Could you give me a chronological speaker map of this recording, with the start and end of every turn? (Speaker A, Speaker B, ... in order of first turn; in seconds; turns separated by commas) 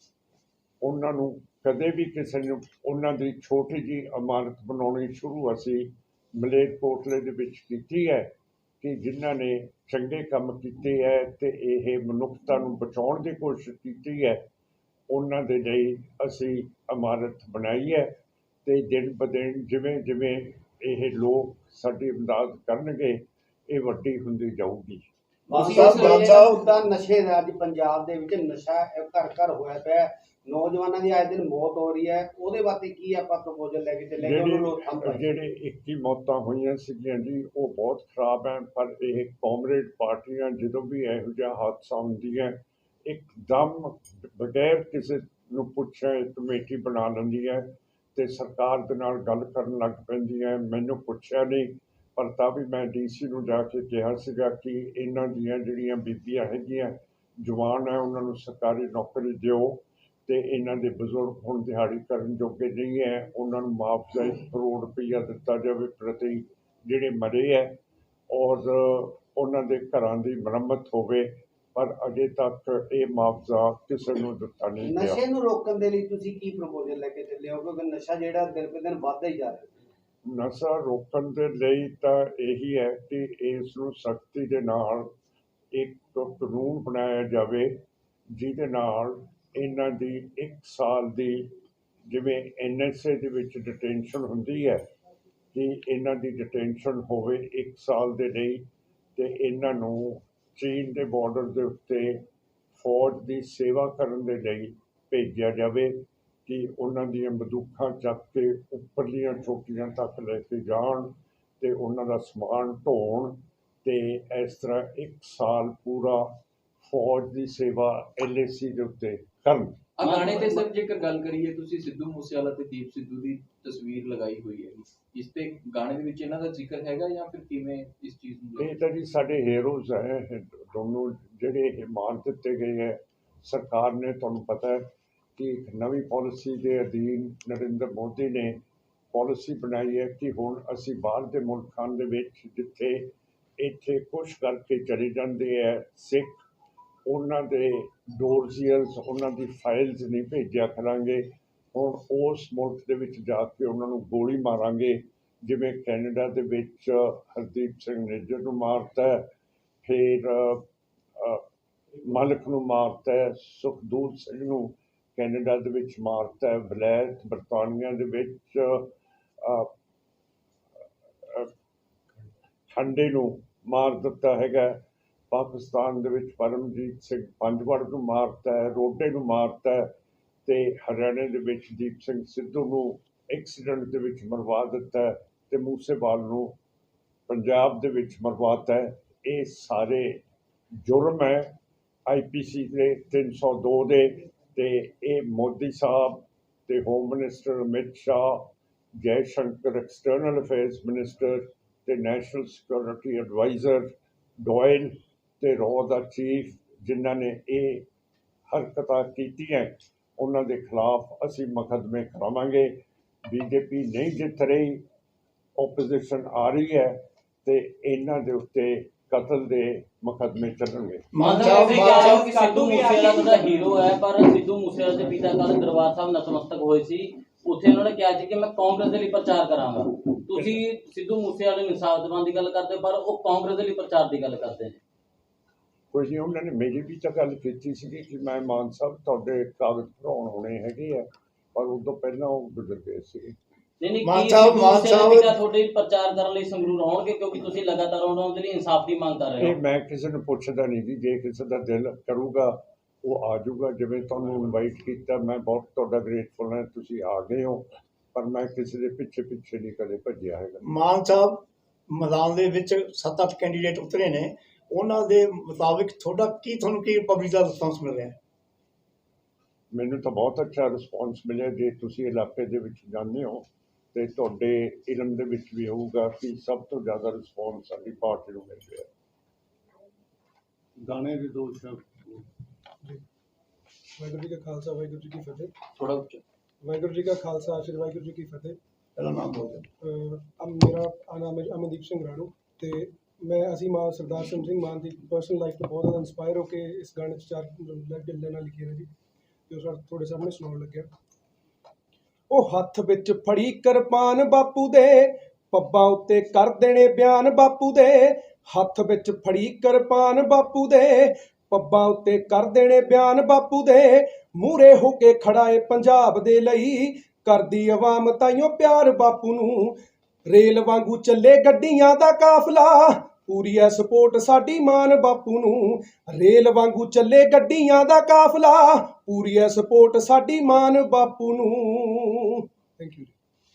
Speaker A: 0.8-14.4, Speaker A: 15.1-25.1, Speaker B: 25.5-26.7, Speaker C: 25.5-35.3, Speaker D: 25.7-26.4, Speaker A: 34.2-67.8, Speaker A: 68.3-75.2, Speaker C: 74.8-79.8, Speaker A: 80.3-85.1, Speaker A: 85.7-87.8, Speaker A: 88.3-91.5, Speaker A: 92.1-94.9, Speaker A: 95.5-119.8, Speaker D: 120.0-128.8, Speaker E: 120.0-120.7, Speaker A: 128.6-138.6, Speaker A: 139.1-146.4, Speaker A: 147.1-159.3, Speaker A: 159.8-160.6, Speaker A: 161.2-161.4, Speaker A: 162.0-168.9, Speaker A: 169.4-169.7, Speaker A: 171.2-171.5, Speaker A: 172.7-179.9, Speaker A: 180.5-186.6, Speaker A: 187.3-190.2, Speaker A: 190.8-191.6, Speaker A: 192.1-207.9, Speaker A: 208.5-214.8, Speaker A: 215.6-221.1, Speaker B: 221.1-222.2, Speaker E: 221.2-234.8, Speaker D: 221.4-223.7, Speaker A: 235.9-243.4, Speaker E: 243.8-249.5, Speaker B: 244.0-245.4, Speaker A: 249.4-260.6, Speaker B: 260.6-268.2, Speaker A: 269.7-278.9, Speaker A: 280.8-282.2, Speaker F: 284.0-285.5, Speaker D: 285.8-286.2, Speaker F: 286.6-288.6, Speaker B: 289.0-289.7, Speaker F: 289.8-298.9, Speaker F: 299.5-300.9, Speaker F: 302.3-333.1